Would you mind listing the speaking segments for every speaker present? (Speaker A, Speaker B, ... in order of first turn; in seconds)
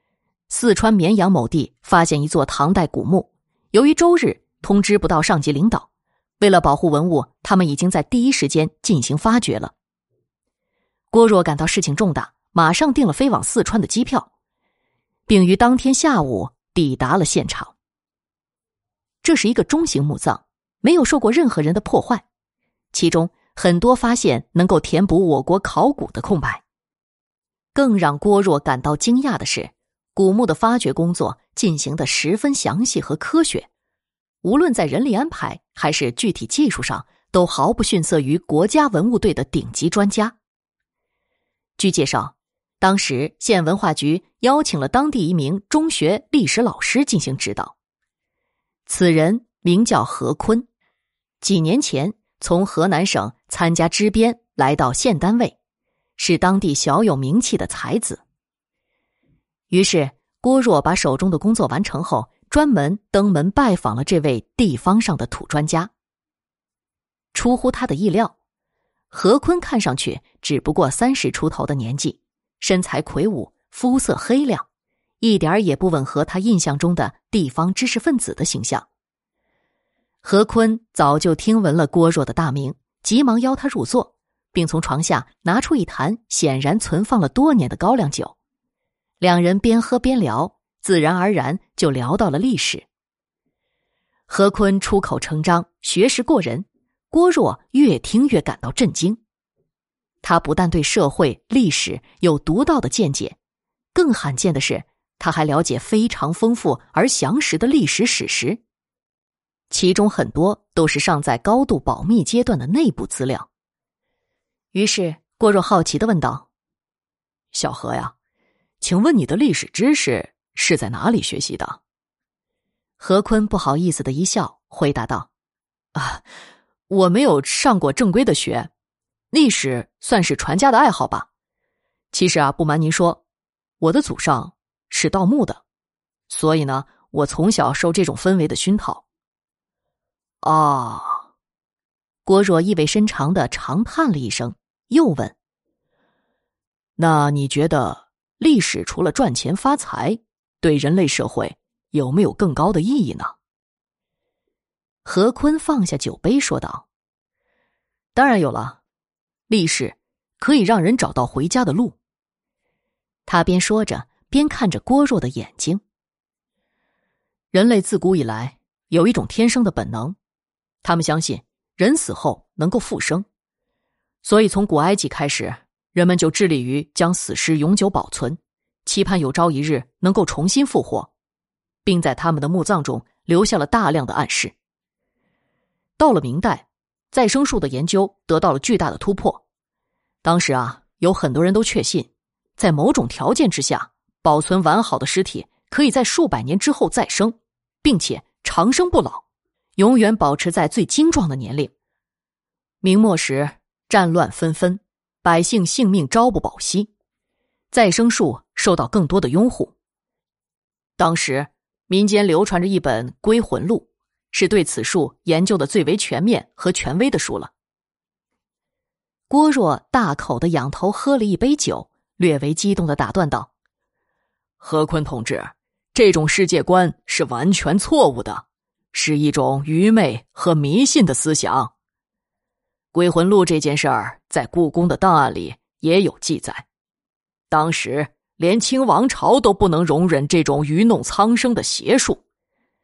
Speaker A: 0.5-5.9, 6.4-9.7, 11.1-14.3, 15.3-17.7, 19.2-22.2, 22.9-26.6, 27.7-33.7, 34.4-40.4, 41.8-47.7, 48.9-50.7, 51.4-55.5, 56.2-58.2, 59.7-65.9, 67.3-68.3, 69.1-74.7, 75.2-78.9, 80.2-88.3, 89.2-92.9, 94.3-99.2, 100.2-103.4, 103.9-108.6, 109.7-113.5, 114.7-116.5, 117.5-118.1, 118.8-121.8, 123.0-125.3, 126.0-126.2, 126.9-128.7, 129.3-131.3, 132.1-133.2, 133.8-135.6, 136.3-139.0, 140.4-141.2, 142.2-145.3, 147.0-153.3, 155.1-156.9, 158.1-158.8, 159.5-162.0, 163.3-165.8, 167.5-170.2, 170.8-173.3, 174.2-181.1, 181.8-184.5, 186.0-189.4, 190.2-199.2, 199.8-201.7, 202.8-206.9, 207.7-209.7, 211.0-217.5, 219.3-223.5, 224.6-231.7, 232.9-236.7, 237.5-242.2